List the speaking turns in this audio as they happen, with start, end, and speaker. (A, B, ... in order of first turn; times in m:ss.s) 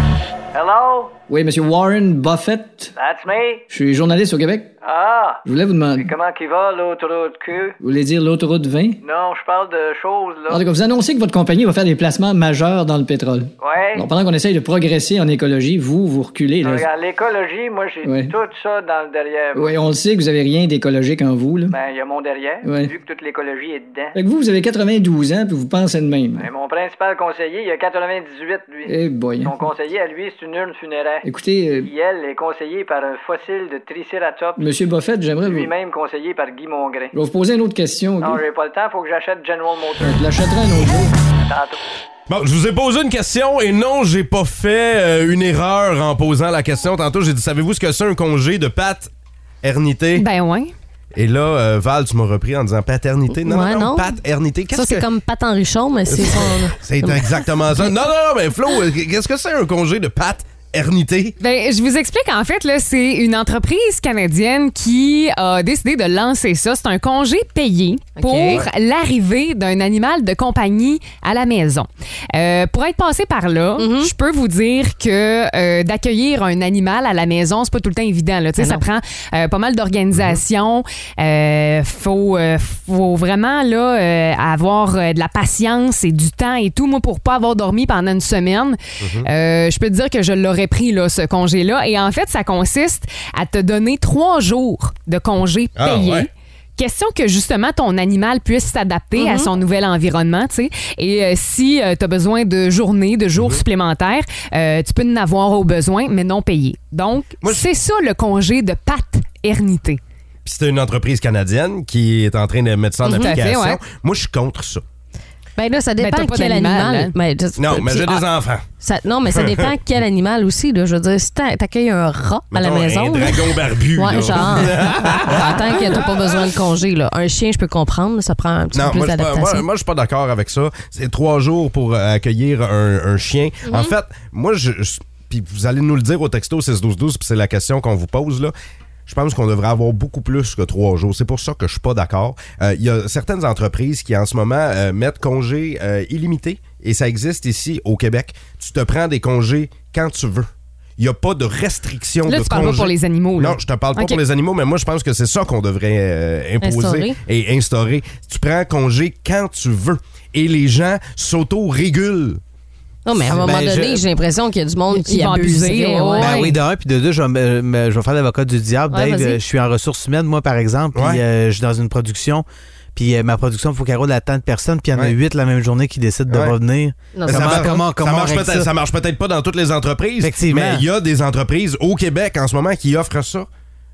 0:00.5-0:01.2 A
0:01.3-0:02.9 B
0:02.9-0:03.7 A
0:03.7-0:04.7 B
0:04.8-0:07.8 A
0:05.4-0:06.1 B
0:07.8-0:09.0 B
0:09.0-0:10.6 A
0:10.5-0:16.8 B
0:13.6-0:14.1 A
0:16.6-0:19.8 A
0:18.0-0:18.3 B
0:19.5-0:21.7 B
0:21.7-0:24.2 A
0:22.6-0:22.9 B
0:24.2-0:26.4 B
0:26.4-0:31.3 A
0:28.9-0:29.5 B
0:31.2-0:31.9 B
0:31.8-0:34.7 A
0:34.6-0:35.7 B
0:35.4-0:37.2 A
0:37.1-0:38.4 B
0:38.2-0:40.3 A
0:40.0-0:41.1 B
0:41.5-0:41.8 A
0:42.3-0:49.1 C
0:49.6-0:50.2 C
0:50.2-0:50.7 D
0:51.1-0:55.0 C
0:53.3-0:54.1 E
0:54.7-0:57.9 E
0:56.1-1:01.4 C
1:01.4-1:50.0 D
1:08.2-1:08.6 E
1:13.8-1:14.1 E
1:18.6-1:18.8 E
1:20.1-1:20.4 C
1:29.0-1:29.3 C
1:35.8-1:36.3 C
1:39.2-1:39.5 E
1:50.4-1:54.8 C
1:53.0-1:53.4 E
1:53.0-1:53.8 D
1:55.6-1:58.3 E
1:56.0-1:57.1 D
1:57.6-1:58.6 C
1:58.8-2:09.6 E
1:59.2-1:59.7 C
2:02.5-2:06.4 C
2:08.7-2:18.5 C
2:13.6-2:13.9 E
2:19.0-2:42.4 C
2:32.3-2:34.2 D
2:36.6-2:37.2 E
2:43.0-2:46.5 E
2:43.2-2:44.0 F
2:44.9-2:46.5 D
2:46.2-2:58.7 F
2:48.9-2:49.4 E
2:50.9-2:51.2 C
2:56.3-2:56.5 C
2:57.1-2:57.7 E
2:57.2-3:03.5 C
3:00.2-3:00.8 F